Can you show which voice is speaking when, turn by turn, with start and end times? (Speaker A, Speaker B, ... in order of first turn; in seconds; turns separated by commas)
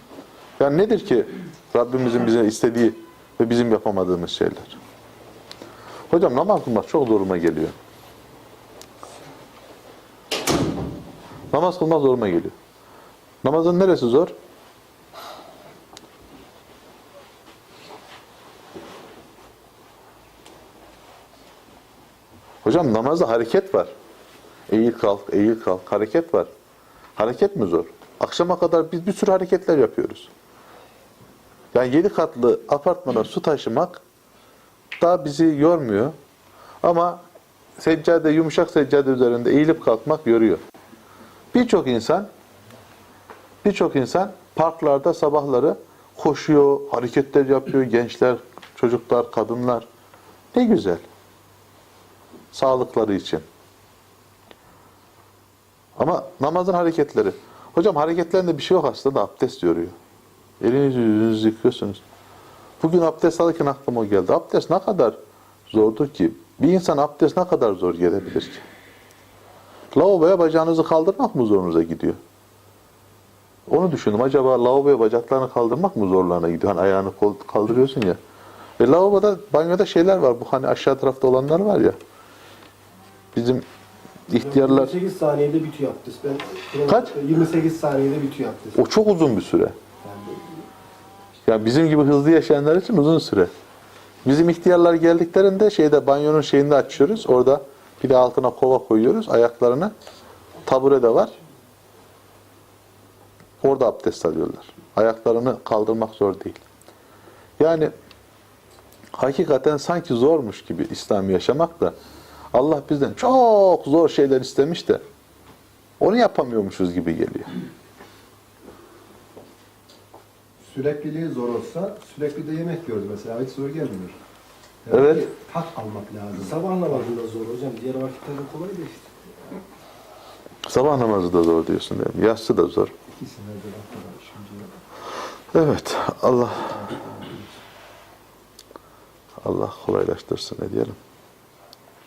Speaker A: 0.6-4.8, Speaker A: 6.1-7.8, Speaker A: 11.5-12.5, Speaker A: 13.4-14.3, Speaker A: 22.6-23.9, Speaker A: 24.7-26.5, Speaker A: 27.2-30.3, Speaker A: 31.7-34.0, Speaker A: 35.0-36.1, Speaker A: 36.8-37.2, Speaker A: 37.8-40.6, Speaker A: 41.5-42.3, Speaker A: 43.6-49.9, Speaker A: 50.5-51.0, Speaker A: 52.5-53.5, Speaker A: 56.0-60.0, Speaker A: 60.6-62.0, Speaker A: 62.8-65.2, Speaker A: 65.7-68.6, Speaker A: 69.9-72.2, Speaker A: 73.7-78.2, Speaker A: 78.8-82.0, Speaker A: 83.3-83.7, Speaker A: 84.3-84.9, Speaker B: 84.4-88.8, Speaker A: 86.9-87.2, Speaker A: 88.8-89.8, Speaker B: 90.0-90.6, Speaker A: 91.5-93.5, Speaker A: 94.2-99.9, Speaker A: 100.7-101.3, Speaker A: 103.6-106.6, Speaker A: 107.6-107.9, Speaker A: 109.2-112.0, Speaker A: 112.5-115.0, Speaker A: 116.0-117.5, Speaker C: 120.6-124.2, Speaker C: 124.8-126.6, Speaker A: 124.9-125.3, Speaker B: 126.3-129.1, Speaker A: 130.7-132.9, Speaker C: 133.1-134.7, Speaker A: 135.5-136.8, Speaker C: 136.7-137.6, Speaker A: 139.4-141.0